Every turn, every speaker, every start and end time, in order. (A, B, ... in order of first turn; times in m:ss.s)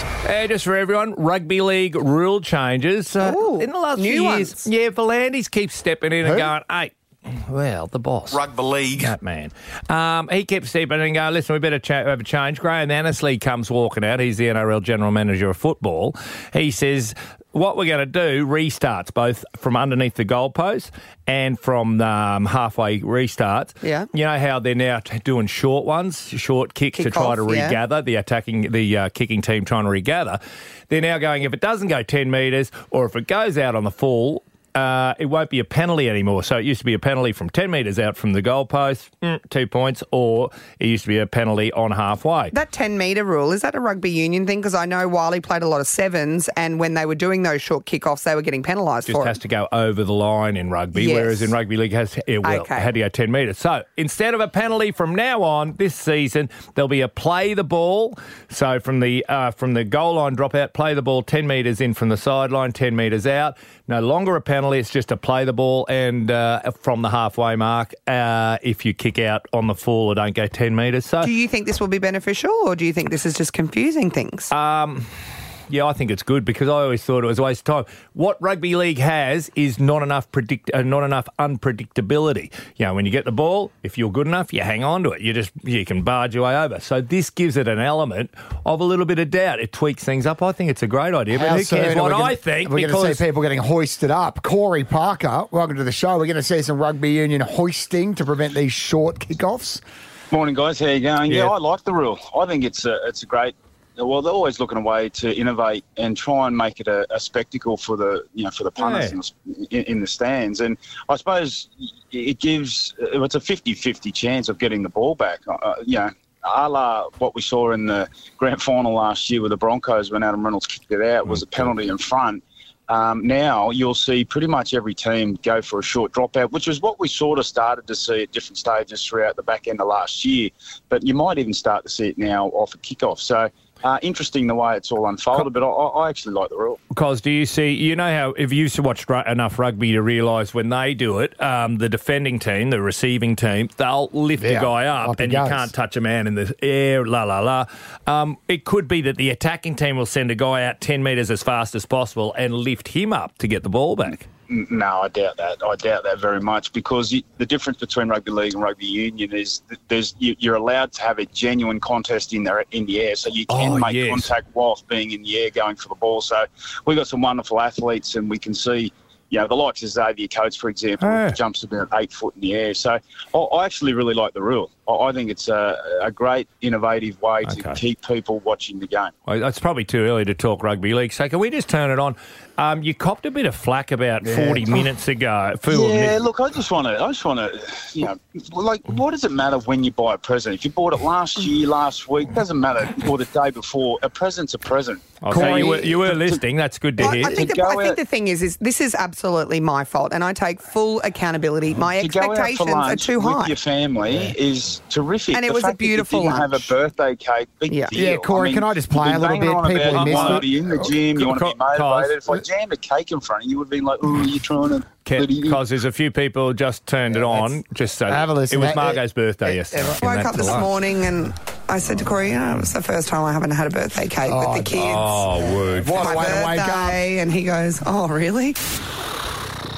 0:00.2-0:08.4 A
0:03.2-0:04.6 B
0:06.2-0:06.5 C
0:09.0-0:42.5 A
0:23.8-0:24.1 B
0:27.0-0:27.8 B
0:42.5-0:49.4 B
0:49.1-1:11.3 A
0:50.9-0:51.5 B
0:52.4-0:52.9 B
1:11.2-1:14.5 B
1:14.5-1:15.1 A
1:15.7-1:33.2 A
1:31.3-1:39.8 C
1:40.3-2:16.8 D
1:48.8-1:49.2 A
2:01.3-2:01.7 A
2:16.9-2:34.3 A
2:24.4-2:25.7 C
2:34.5-2:59.1 D
2:43.5-2:44.3 A
2:51.0-2:51.4 A
2:57.4-2:57.8 A
2:59.3-3:06.2 A
3:04.2-3:04.8 C
3:05.7-3:16.4 D
3:15.2-3:17.4 A
3:15.3-3:15.8 C
3:17.0-3:18.0 D
3:17.0-3:23.6 B
3:22.0-3:35.6 D
3:25.3-3:26.7 B
3:27.9-3:30.8 C
3:29.9-3:30.5 A
3:31.1-3:32.2 A
3:35.0-3:40.7 A
3:37.1-3:37.5 C
3:38.1-3:39.0 C
3:39.7-3:45.2 B
3:44.2-3:44.9 C
3:44.8-3:46.0 A
3:45.7-3:47.0 C
3:46.0-3:48.6 B